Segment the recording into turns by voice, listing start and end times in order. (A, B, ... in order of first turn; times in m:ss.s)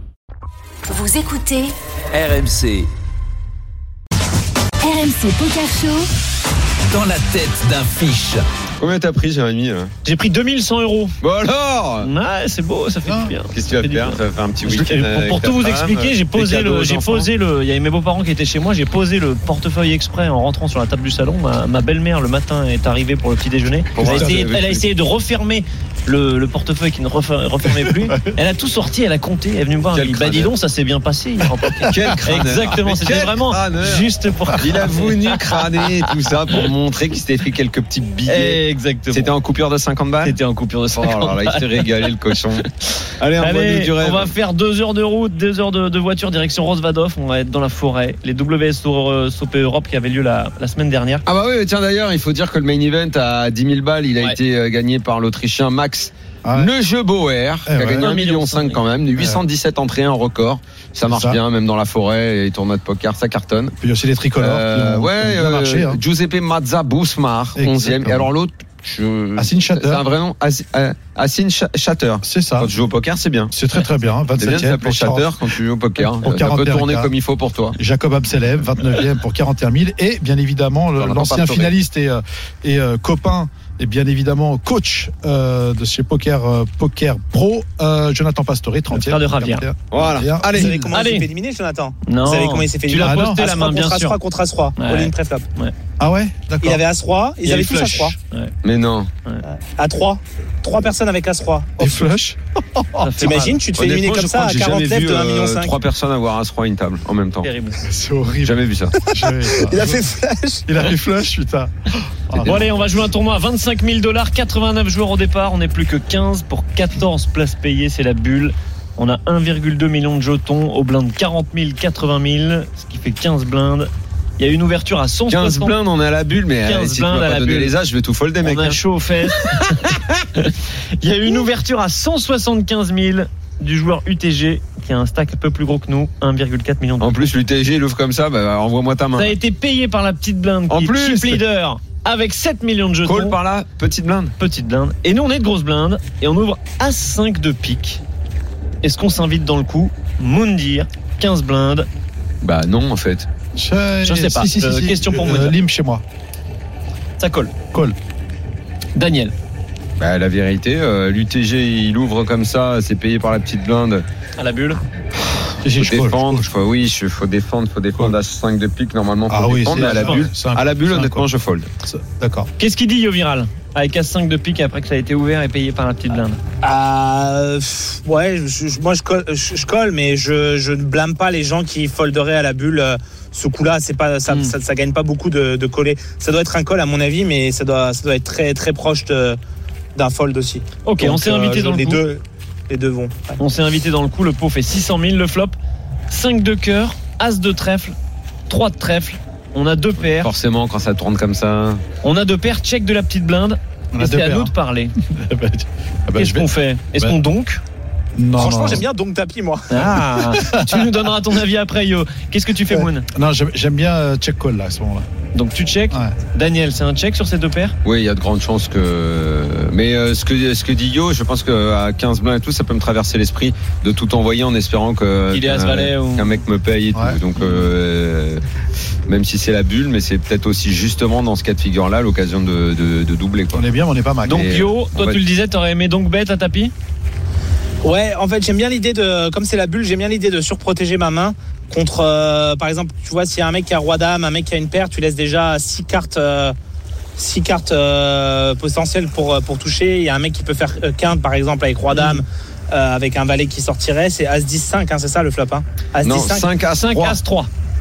0:00.9-0:01.7 A
0:02.1-0:02.9 B
0:04.8-0:06.1 A
0:06.9-0:08.5 B
0:08.8-0:09.9 C
0:10.0-0:11.1 D
0:11.2-0:12.1 C
0:12.0-0:35.9 D
0:13.0-0:13.4 E
0:13.5-0:17.3 C
0:23.9-0:24.8 C
0:24.0-0:24.4 E
0:27.6-0:28.3 E
0:29.9-0:30.5 C
0:31.5-0:32.0 E
0:31.9-0:40.4 C
0:38.3-0:39.3 D
0:40.2-0:51.2 D
0:40.9-0:42.6 C
0:43.2-0:44.3 C
0:51.2-1:03.7 C
0:56.4-0:56.7 E
0:57.6-0:58.1 E
0:57.9-0:58.8 D
1:01.0-1:01.4 E
1:03.8-1:06.0 E
1:04.4-1:13.5 C
1:07.6-1:08.3 E
1:09.4-1:10.0 E
1:12.2-1:12.7 E
1:13.5-1:17.1 E
1:14.4-1:17.8 C
1:17.7-1:30.9 E
1:21.0-1:21.7 C
1:28.9-1:29.6 D
1:29.9-1:30.7 C
1:30.5-1:35.4 F
1:30.9-1:31.3 D
1:32.0-1:34.2 D
1:32.9-1:33.4 E
1:34.8-1:35.7 D
1:36.0-1:36.8 E
1:36.6-1:38.1 F
1:37.4-1:38.5 D
1:38.6-1:39.1 C
1:39.4-1:42.1 F
1:41.8-1:43.2 E
1:43.0-1:43.6 D
1:43.2-1:45.8 F
1:43.7-1:47.5 C
1:47.4-1:47.8 D
1:47.8-1:50.1 E
1:48.4-1:49.0 C
1:49.1-1:50.6 F
1:50.7-1:52.8 E
1:52.4-2:05.7 D
2:05.3-2:08.8 C
2:06.6-2:07.7 D
2:08.4-2:17.3 D
2:09.4-2:10.0 C
2:17.0-2:19.4 C
2:19.1-2:23.4 D
2:20.7-2:21.4 C
2:23.0-2:24.3 C
2:24.4-2:28.0 D
2:28.8-2:31.9 D
2:32.4-2:33.3 C
2:33.5-2:36.0 E
2:34.0-2:35.5 D
2:37.2-2:37.5 D
2:38.9-2:39.3 D
2:40.0-2:44.0 C
2:44.4-2:44.8 D
2:45.6-2:46.5 E
2:45.8-2:51.7 C
2:49.3-2:51.3 E
2:49.7-2:50.3 D
2:51.8-2:52.5 E
2:52.6-2:56.4 D
2:56.6-3:09.4 F
3:04.3-3:04.5 D
3:10.0-3:13.4 F
3:10.8-3:12.0 D
3:13.4-3:15.6 D
3:16.1-3:17.9 D
3:18.5-3:20.3 D
3:20.2-3:21.8 C
3:22.0-3:24.9 D
3:23.9-3:27.2 E
3:26.2-3:27.6 D
3:28.2-3:28.8 E
3:28.4-3:29.9 F
3:29.7-3:33.0 D
3:29.9-3:30.9 E
3:32.7-3:35.0 E
3:35.3-3:37.8 D
3:37.8-3:48.4 C
3:45.3-3:46.4 D
3:46.9-3:47.2 E
3:47.4-3:47.7 D
3:49.1-3:53.6 C
3:53.5-3:54.6 E
3:54.2-3:56.7 D
3:54.3-3:55.2 C
3:57.8-4:06.5 F
4:07.2-4:16.5 F
4:16.0-4:17.2 C
4:16.8-4:17.5 D